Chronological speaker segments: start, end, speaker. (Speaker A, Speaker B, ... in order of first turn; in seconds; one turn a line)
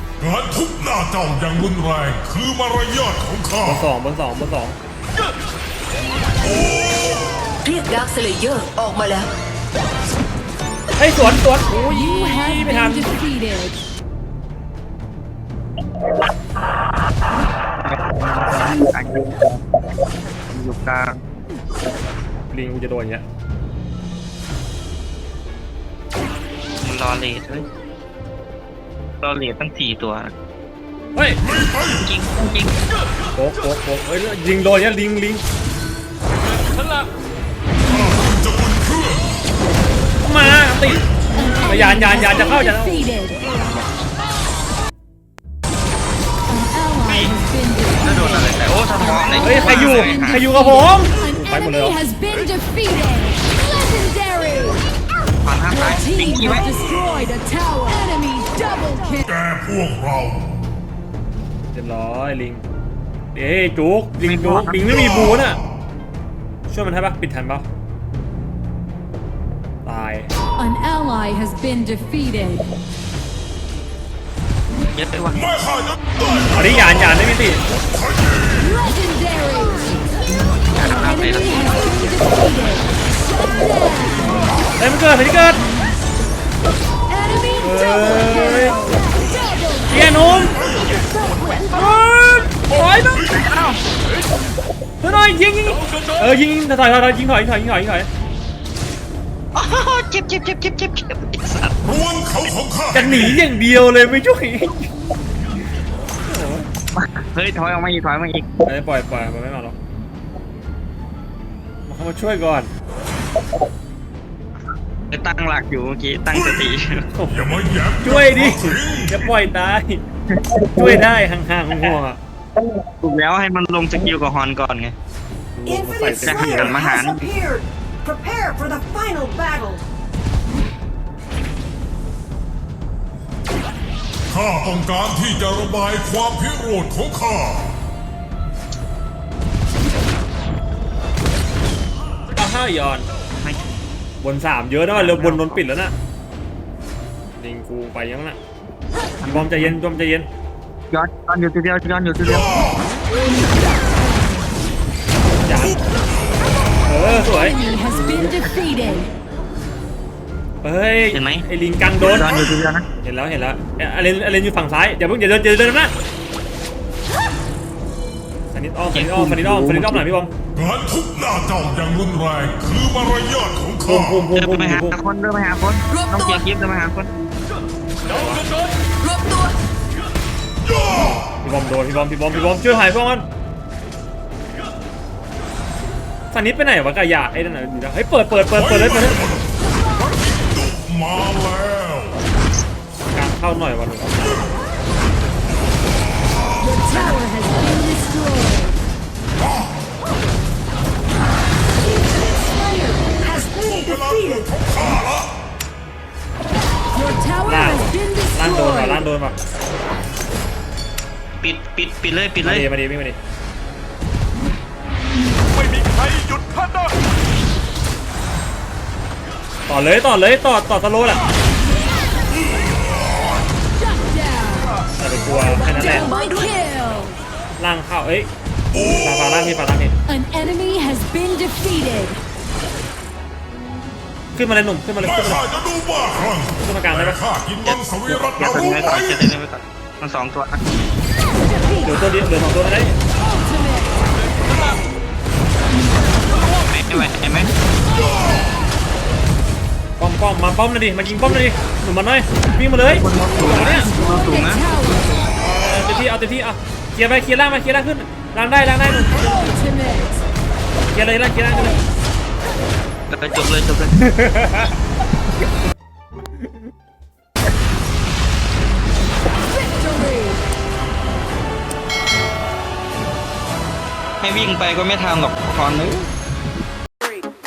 Speaker A: 0.2-3.8
Speaker B: 3.6-4.8
Speaker C: 7.6-9.3
Speaker B: 11.0-13.1
Speaker D: 11.8-13.8
Speaker E: 17.8-19.6
Speaker E: 20.5-21.1
Speaker B: 22.5-23.2
Speaker E: 26.8-27.7
Speaker E: 29.2-30.3
Speaker A: 31.4-32.1
Speaker E: 31.9-32.7
Speaker B: 33.4-35.4
Speaker A: 37.9-39.3
Speaker B: 40.2-43.8
Speaker D: 41.3-43.5
Speaker D: 46.5-54.8
Speaker E: 47.0-47.3
Speaker E: 48.0-50.5
Speaker B: 49.4-52.0
Speaker E: 55.5-56.6
Speaker D: 55.7-59.2
Speaker A: 56.7-57.3
Speaker A: 59.2-60.6
Speaker B: 61.7-62.6
Speaker B: 63.3-65.6
Speaker E: 64.2-64.9
Speaker B: 66.7-67.7
Speaker B: 69.8-70.3
Speaker D: 70.6-72.7
Speaker E: 74.9-75.4
Speaker A: 75.3-76.2
Speaker B: 76.5-77.6
Speaker A: 78.1-78.7
Speaker D: 78.6-80.0
Speaker E: 80.8-82.0
Speaker D: 80.8-84.5
Speaker B: 84.8-85.6
Speaker D: 87.1-89.9
Speaker B: 87.6-88.8
Speaker B: 89.9-90.6
Speaker B: 91.7-93.3
Speaker E: 93.3-93.8
Speaker B: 95.0-98.1
Speaker E: 99.5-101.8
Speaker A: 101.8-103.5
Speaker B: 102.9-104.9
Speaker B: 106.2-106.7
Speaker E: 107.0-108.5
Speaker B: 108.7-109.8
Speaker B: 111.9-112.7
Speaker E: 115.1-117.1
Speaker B: 117.1-117.4
Speaker A: 117.3-119.2
Speaker B: 118.0-120.0
Speaker B: 120.8-122.2
Speaker E: 122.9-125.0
Speaker B: 125.5-126.8
Speaker F: 125.7-129.8
Speaker E: 126.2-127.3
Speaker A: 134.3-137.7
Speaker B: 142.3-143.1
Speaker B: 144.2-145.9
Speaker E: 144.9-145.6
Speaker B: 147.4-148.4
Speaker E: 149.2-149.7
Speaker B: 149.2-150.3
Speaker E: 150.9-152.5
Speaker B: 155.4-155.8
Speaker B: 156.9-157.7
Speaker D: 157.4-159.1
Speaker B: 160.6-162.5
Speaker E: 161.1-161.4
Speaker E: 162.0-162.8
Speaker B: 163.0-165.9
Speaker B: 168.5-170.3
Speaker E: 168.8-170.0
Speaker A: 170.5-174.2
Speaker B: 173.8-175.0
Speaker E: 174.4-177.1
Speaker C: 176.0-176.3
Speaker B: 178.1-178.5
Speaker C: 179.0-179.6
Speaker B: 180.9-183.3
Speaker B: 186.3-189.2
Speaker A: 188.5-192.2
Speaker B: 193.1-194.5
Speaker D: 196.6-198.8
Speaker F: 201.8-204.4
Speaker A: 203.3-205.3
Speaker D: 206.9-209.0
Speaker B: 207.5-209.4
Speaker E: 211.4-212.7
Speaker B: 212.4-213.2
Speaker B: 219.7-221.2
Speaker D: 223.8-224.8
Speaker B: 225.0-226.1
Speaker C: 225.4-226.6
Speaker D: 225.6-227.2
Speaker B: 227.6-230.0
Speaker A: 228.7-229.5
Speaker D: 230.1-232.2
Speaker B: 234.3-235.4
Speaker A: 235.0-239.1
Speaker B: 236.6-237.2
Speaker E: 238.1-240.6
Speaker B: 241.8-243.0
Speaker E: 246.7-247.5
Speaker B: 250.0-253.9
Speaker E: 252.9-255.0
Speaker B: 255.3-259.4
Speaker D: 259.2-260.2
Speaker B: 260.9-261.8
Speaker E: 263.1-263.9
Speaker B: 264.0-264.7
Speaker D: 269.8-270.4
Speaker E: 274.2-276.1